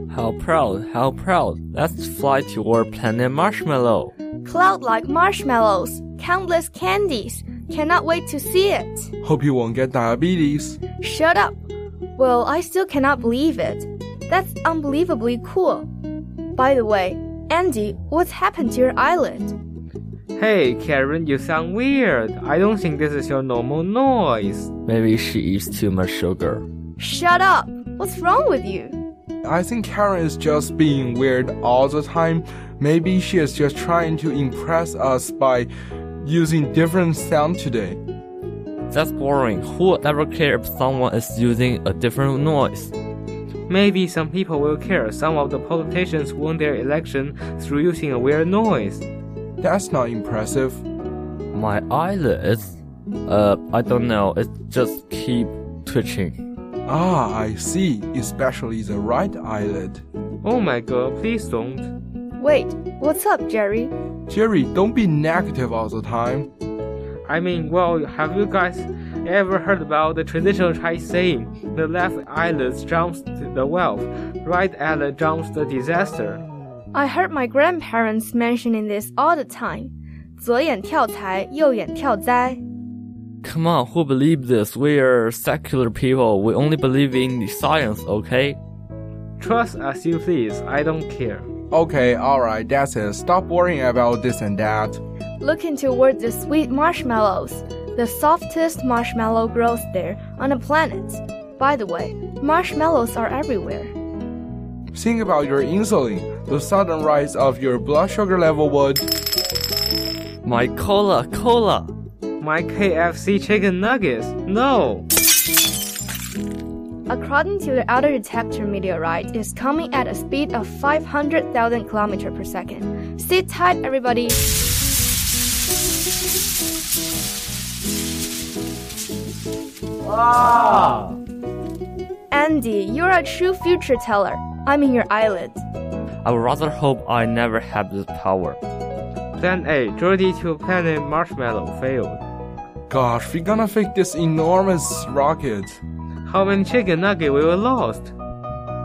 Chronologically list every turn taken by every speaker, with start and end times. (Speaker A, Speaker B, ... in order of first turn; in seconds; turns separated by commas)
Speaker A: 0.1-4.1, Speaker B: 4.4-9.1, Speaker C: 9.2-10.8, Speaker B: 11.0-11.6, Speaker B: 12.2-15.9, Speaker B: 16.5-19.5, Speaker D: 20.4-24.7, Speaker A: 24.9-26.6, Speaker B: 27.0-28.9, Speaker C: 29.4-35.7, Speaker C: 36.2-38.0, Speaker A: 38.9-42.9, Speaker D: 43.7-49.0, Speaker C: 49.6-50.8, Speaker A: 51.5-56.4, Speaker C: 56.9-60.0, Speaker D: 60.4-61.9, Speaker B: 62.4-63.9, Speaker C: 64.3-66.5, Speaker D: 67.3-76.4, Speaker B: 76.9-82.6, Speaker A: 83.4-88.6, Speaker D: 89.4-91.5, Speaker C: 91.7-95.0, Speaker B: 95.4-103.9, Speaker C: 104.9-109.1, Speaker A: 110.4-111.9, Speaker D: 112.4-115.1, Speaker B: 117.1-124.4, Speaker A: 130.0-131.1, Speaker B: 132.3-135.6, Speaker A: 136.2-138.6, Speaker D: 139.4-142.2, Speaker C: 142.9-145.8, Speaker D: 146.2-148.1